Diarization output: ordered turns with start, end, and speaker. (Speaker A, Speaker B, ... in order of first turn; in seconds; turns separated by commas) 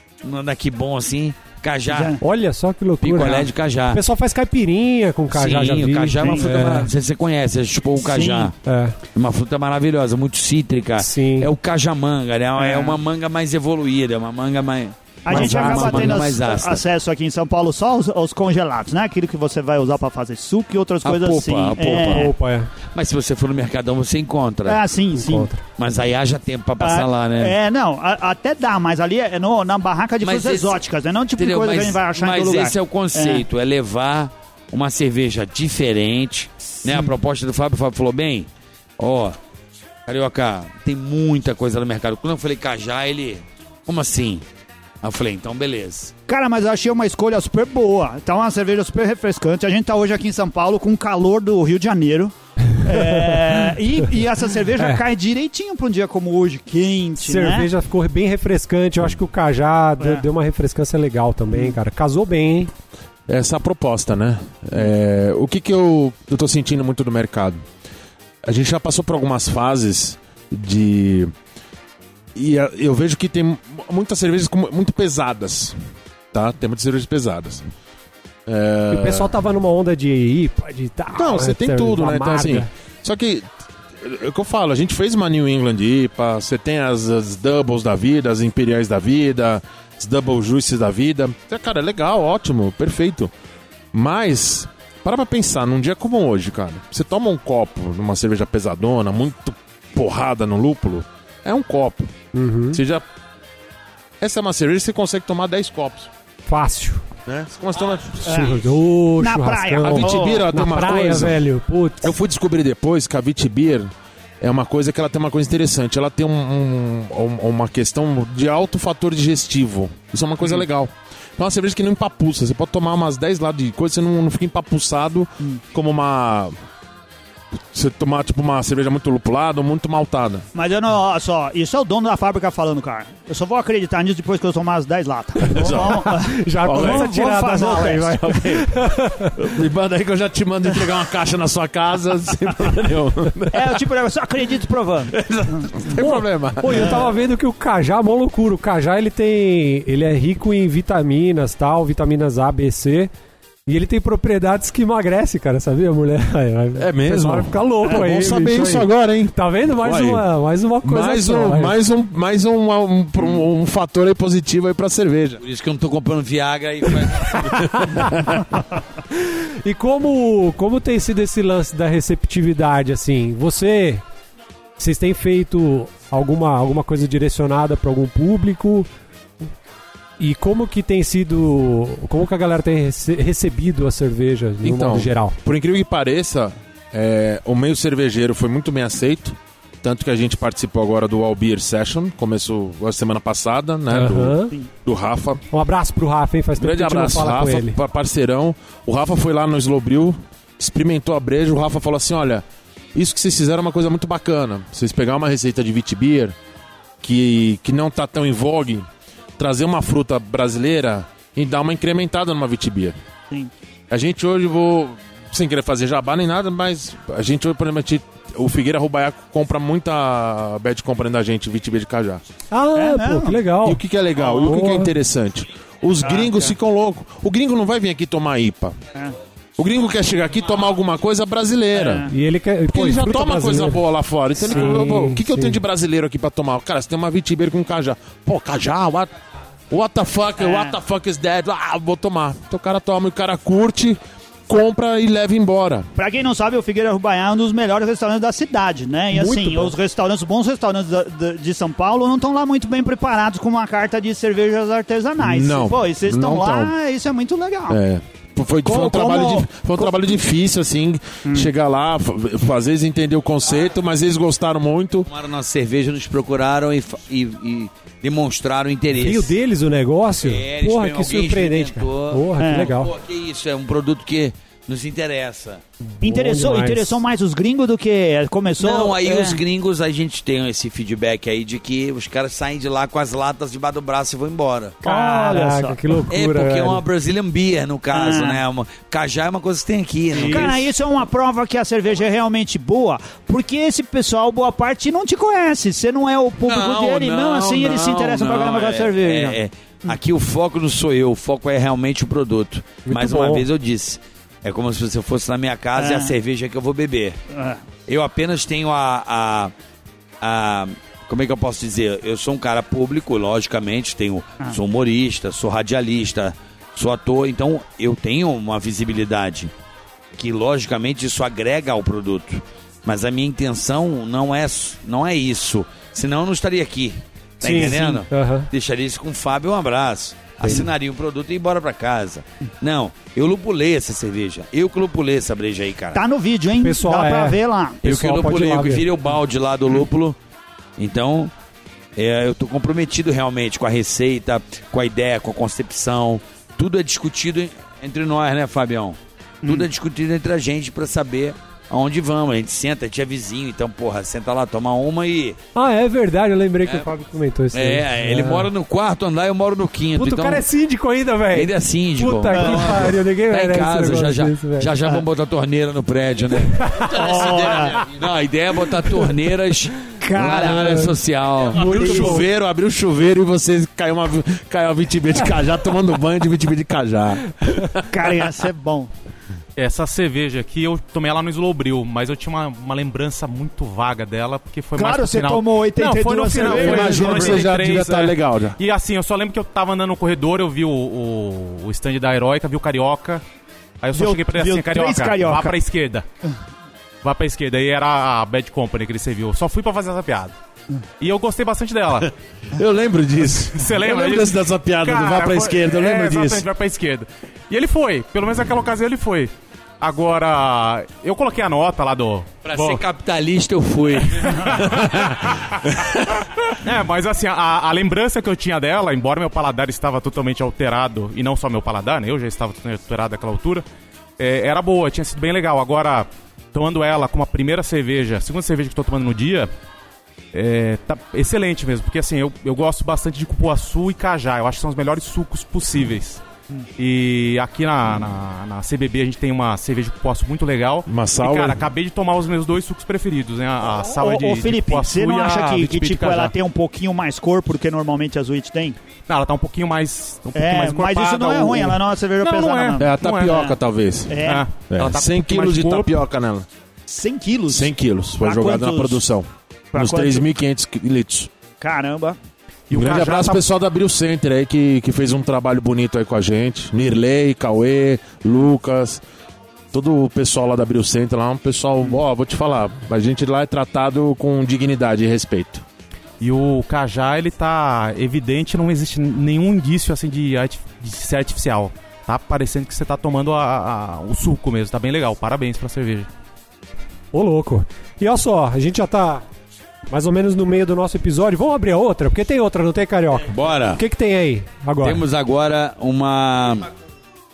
Speaker A: 0.2-2.2, Speaker B: 1.9-2.2, Speaker C: 2.2-6.9, Speaker A: 3.0-4.0, Speaker A: 5.3-8.5, Speaker B: 6.2-6.5, Speaker B: 8.0-8.5, Speaker C: 8.6-9.0, Speaker A: 9.2-16.8, Speaker C: 11.0-11.5, Speaker B: 12.6-13.0, Speaker B: 15.2-22.3, Speaker C: 15.3-16.3, Speaker A: 21.0-22.3, Speaker C: 22.0-22.7, Speaker A: 22.9-24.8, Speaker B: 24.7-25.5, Speaker C: 25.1-25.6, Speaker A: 25.8-27.6, Speaker B: 26.8-33.5, Speaker A: 30.2-30.8, Speaker A: 31.4-38.5, Speaker B: 36.9-37.1, Speaker A: 39.0-39.4, Speaker A: 40.1-44.4, Speaker A: 45.0-46.1, Speaker B: 46.3-57.7, Speaker C: 52.9-53.6, Speaker C: 57.2-62.7, Speaker B: 60.0-60.2, Speaker D: 63.3-67.6, Speaker D: 68.4-71.3, Speaker D: 72.3-75.8, Speaker D: 76.3-77.7, Speaker D: 78.5-79.3, Speaker C: 78.9-82.7, Speaker D: 81.1-83.5, Speaker D: 84.0-93.3, Speaker D: 93.9-102.1, Speaker C: 102.3-102.8, Speaker D: 102.7-103.0, Speaker D: 104.2-106.1, Speaker C: 106.5-107.0, Speaker D: 107.3-108.5, Speaker B: 108.2-108.7, Speaker C: 108.3-112.1, Speaker B: 109.2-110.4, Speaker D: 109.8-111.4, Speaker D: 112.0-113.9, Speaker D: 114.4-126.5, Speaker D: 127.7-130.5, Speaker B: 130.5-138.2, Speaker D: 135.5-136.1, Speaker C: 135.6-139.4, Speaker D: 136.6-137.1, Speaker D: 138.2-138.8, Speaker D: 139.3-143.8, Speaker B: 143.5-145.7, Speaker D: 145.1-147.0, Speaker C: 146.0-153.1, Speaker C: 153.7-161.7, Speaker D: 156.8-160.2, Speaker D: 160.8-165.4, Speaker A: 165.4-168.1, Speaker D: 167.6-168.4, Speaker C: 169.2-174.0, Speaker C: 174.8-178.9, Speaker C: 180.2-185.4, Speaker D: 184.6-195.4, Speaker C: 193.9-194.6, Speaker C: 195.5-197.8, Speaker D: 196.6-206.3, Speaker D: 207.0-208.9, Speaker D: 209.4-213.0, Speaker D: 213.9-222.2, Speaker C: 222.5-223.8, Speaker B: 222.8-223.4, Speaker D: 223.6-228.8, Speaker B: 224.2-224.5, Speaker C: 224.4-224.9, Speaker B: 226.0-226.5, Speaker D: 229.6-232.1, Speaker B: 231.7-232.1, Speaker C: 232.1-233.8, Speaker D: 232.7-239.1, Speaker C: 234.4-235.6, Speaker D: 239.7-245.9, Speaker B: 240.4-240.8, Speaker B: 246.0-257.8, Speaker C: 249.1-249.7, Speaker D: 255.2-256.8, Speaker D: 257.7-265.1, Speaker B: 258.6-259.9, Speaker A: 265.1-269.4, Speaker C: 269.0-272.9, Speaker A: 270.2-275.6, Speaker B: 272.4-272.7, Speaker C: 276.0-277.0, Speaker B: 276.0-279.4, Speaker A: 278.6-284.8, Speaker B: 284.8-285.8, Speaker C: 284.8-286.8, Speaker A: 286.1-290.7, Speaker B: 287.9-288.4, Speaker C: 290.2-290.5, Speaker B: 290.3-299.4, Speaker A: 296.4-307.2, Speaker C: 302.9-303.5, Speaker B: 305.8-306.1, Speaker B: 307.3-307.6, Speaker A: 307.9-309.5, Speaker A: 310.2-319.5, Speaker A: 320.2-336.0, Speaker C: 327.4-328.5, Speaker B: 335.9-337.8, Speaker C: 336.6-338.9, Speaker A: 337.8-340.2, Speaker A: 340.8-341.3, Speaker A: 342.0-355.4, Speaker C: 355.6-358.5, Speaker A: 357.5-360.4, Speaker C: 360.0-364.8, Speaker A: 361.3-371.7, Speaker B: 362.3-362.8, Speaker C: 366.6-366.9, Speaker B: 366.9-367.8, Speaker B: 370.0-370.9, Speaker C: 370.3-370.9, Speaker C: 371.5-372.3, Speaker D: 371.6-377.9, Speaker B: 377.9-378.9, Speaker E: 379.6-393.2, Speaker B: 384.8-387.5, Speaker D: 386.3-388.6, Speaker E: 393.8-396.1, Speaker B: 393.9-395.6, Speaker E: 397.0-400.3, Speaker E: 401.0-402.1, Speaker D: 402.5-406.4, Speaker E: 403.6-412.8, Speaker A: 412.4-414.8, Speaker E: 414.3-415.6, Speaker E: 416.5-423.6, Speaker E: 424.2-429.5, Speaker E: 430.3-436.2, Speaker E: 436.8-446.3, Speaker D: 440.9-441.6, Speaker B: 443.8-448.8, Speaker E: 449.1-453.4, Speaker B: 450.4-453.6, Speaker D: 452.8-456.5, Speaker B: 454.1-454.5, Speaker E: 454.2-456.0, Speaker B: 456.9-459.0, Speaker D: 457.5-461.3, Speaker B: 459.7-460.2, Speaker B: 461.6-462.2, Speaker E: 462.7-463.4, Speaker D: 462.7-469.0, Speaker D: 469.7-475.6, Speaker E: 476.2-486.1, Speaker C: 487.1-489.2, Speaker C: 489.9-495.0, Speaker A: 493.3-493.8, Speaker A: 494.8-496.7